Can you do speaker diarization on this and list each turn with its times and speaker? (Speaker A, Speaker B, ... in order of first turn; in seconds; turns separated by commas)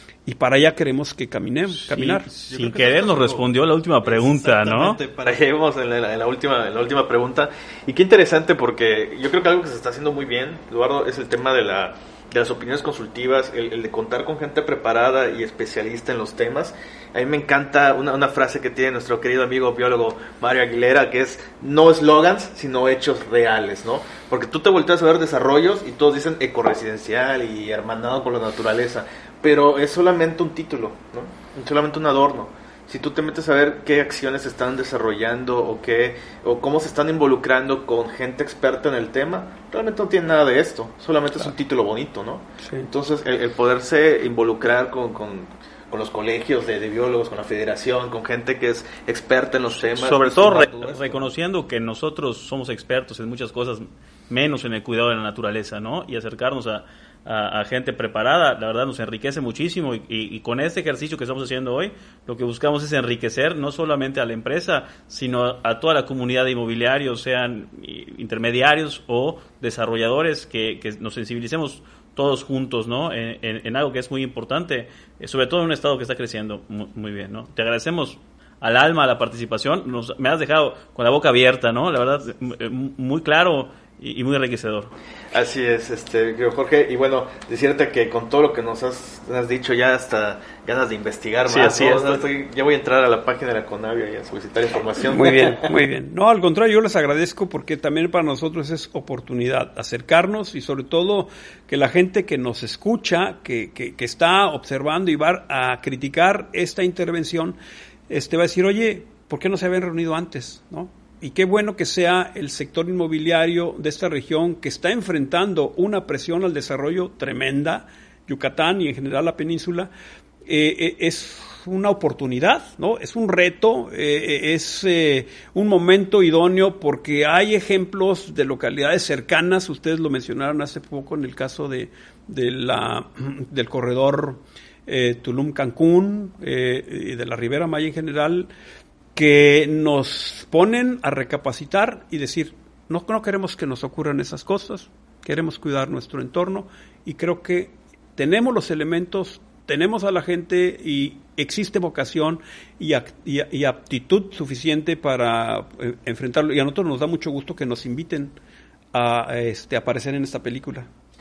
Speaker A: 0.2-2.3, Speaker B: 1.8-5.0, Speaker C: 2.5-51.3, Speaker A: 42.6-42.9, Speaker B: 49.9-84.9, Speaker C: 85.3-95.7, Speaker B: 91.5-92.2, Speaker A: 95.0-107.6, Speaker A: 108.1-119.9, Speaker A: 120.5-138.5, Speaker A: 139.1-158.3, Speaker A: 158.9-160.9